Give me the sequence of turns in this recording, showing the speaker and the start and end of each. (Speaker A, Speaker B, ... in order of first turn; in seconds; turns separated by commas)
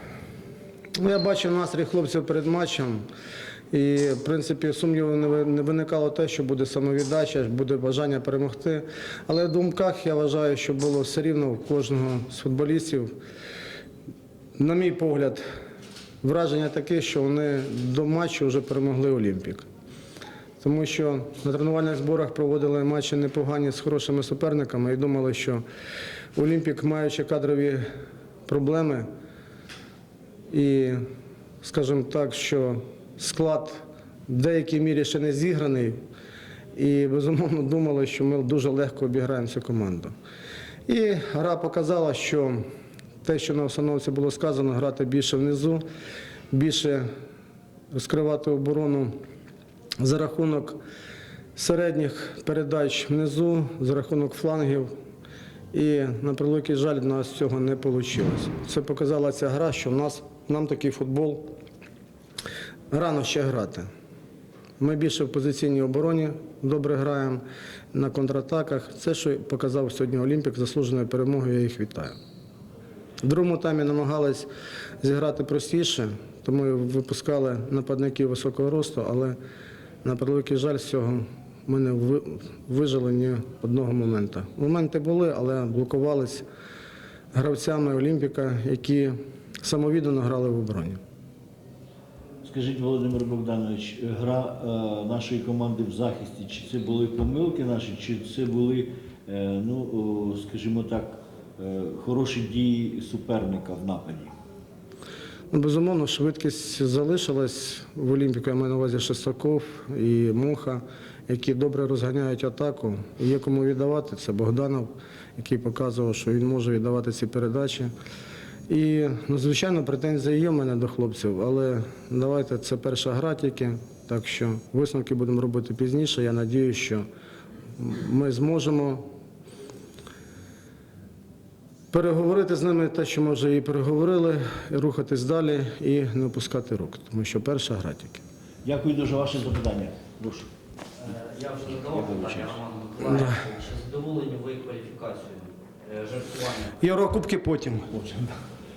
Speaker A: 1.0-3.0, Speaker A: 3.7-13.1, Speaker A: 14.6-15.4, Speaker A: 16.2-19.6, Speaker A: 20.6-25.6, Speaker A: 26.3-27.8, Speaker A: 28.5-29.1, Speaker A: 30.5-31.0, Speaker A: 31.6-36.0, Speaker A: 36.7-40.1, Speaker A: 40.9-42.6, Speaker A: 43.2-45.8, Speaker A: 46.5-47.1, Speaker A: 47.9-49.1, Speaker A: 50.0-50.8, Speaker A: 51.5-54.9, Speaker A: 55.7-61.5, Speaker A: 62.9-63.9, Speaker A: 64.8-67.4, Speaker A: 67.9-72.2, Speaker A: 73.2-74.5, Speaker A: 75.0-79.3, Speaker A: 80.0-86.4, Speaker A: 87.3-91.0, Speaker B: 92.4-104.3, Speaker A: 105.5-117.9, Speaker A: 118.7-127.0, Speaker A: 127.8-129.0, Speaker A: 131.9-138.2, Speaker B: 138.6-140.5, Speaker C: 141.0-146.8, Speaker B: 141.8-142.6, Speaker A: 146.8-147.9, Speaker B: 147.9-148.3